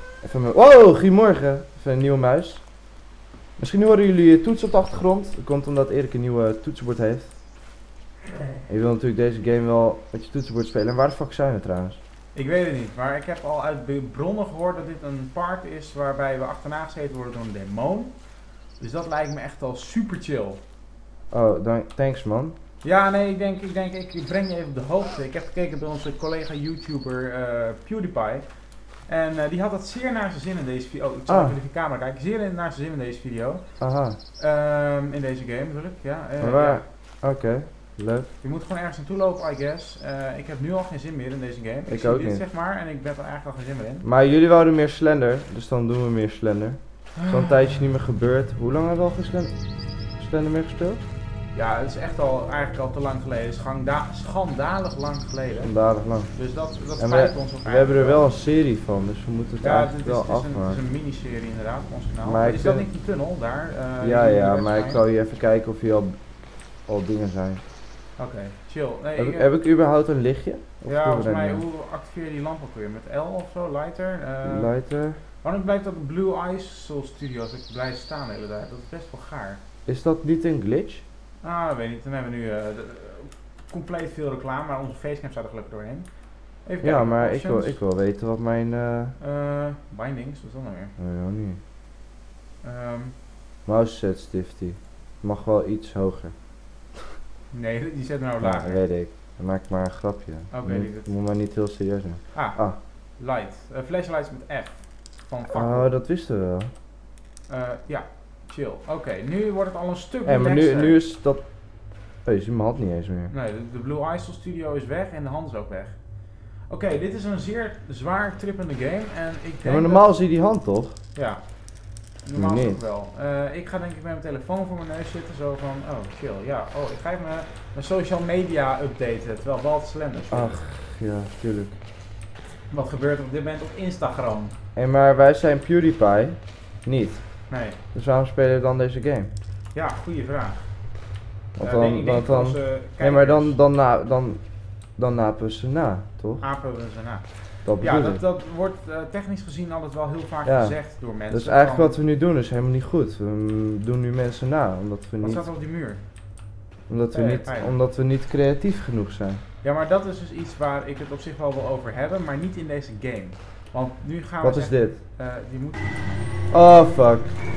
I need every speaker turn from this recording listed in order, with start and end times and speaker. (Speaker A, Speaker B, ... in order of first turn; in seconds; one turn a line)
Speaker A: 0.2-7.4
Speaker A: 8.7-12.0
Speaker B: 12.3-20.6
Speaker A: 21.3-22.6
Speaker B: 22.8-36.8
Speaker A: 31.3-31.6
Speaker A: 33.8-34.2
Speaker A: 36.4-38.3
Speaker B: 38.4-44.1
Speaker A: 41.9-42.4
Speaker A: 44.0-51.0
Speaker B: 47.2-47.8
Speaker B: 51.5-58.3
Speaker A: 55.6-60.8
Speaker B: 59.6-65.0
Speaker A: 62.2-62.9
Speaker A: 64.0-67.6
Speaker B: 68.2-69.5
Speaker A: 69.2-71.7
Speaker B: 70.8-79.6
Speaker A: 74.4-75.2
Speaker A: 79.9-81.0
Speaker B: 81.4-87.8
Speaker A: 86.8-89.2
Speaker B: 89.2-91.0
Speaker A: 91.0-91.6
Speaker B: 92.6-93.2
Speaker A: 93.7-96.5
Speaker B: 97.5-98.8
Speaker A: 98.4-102.8
Speaker B: 100.5-101.1
Speaker B: 102.3-105.9
Speaker A: 105.5-106.7
Speaker B: 107.5-111.0
Speaker A: 110.2-113.3
Speaker B: 113.3-120.2
Speaker A: 119.6-121.0
Speaker B: 121.1-130.7
Speaker A: 122.3-122.8
Speaker A: 130.3-131.8
Speaker B: 132.7-134.6
Speaker A: 134.8-139.3
Speaker B: 137.5-137.8
Speaker B: 139.7-143.6
Speaker A: 141.6-146.6
Speaker B: 146.4-152.0
Speaker A: 147.7-148.2
Speaker A: 150.4-155.5
Speaker B: 155.2-156.4
Speaker A: 156.9-159.4
Speaker B: 157.1-157.8
Speaker B: 159.6-166.3
Speaker A: 164.4-165.0
Speaker A: 166.5-167.4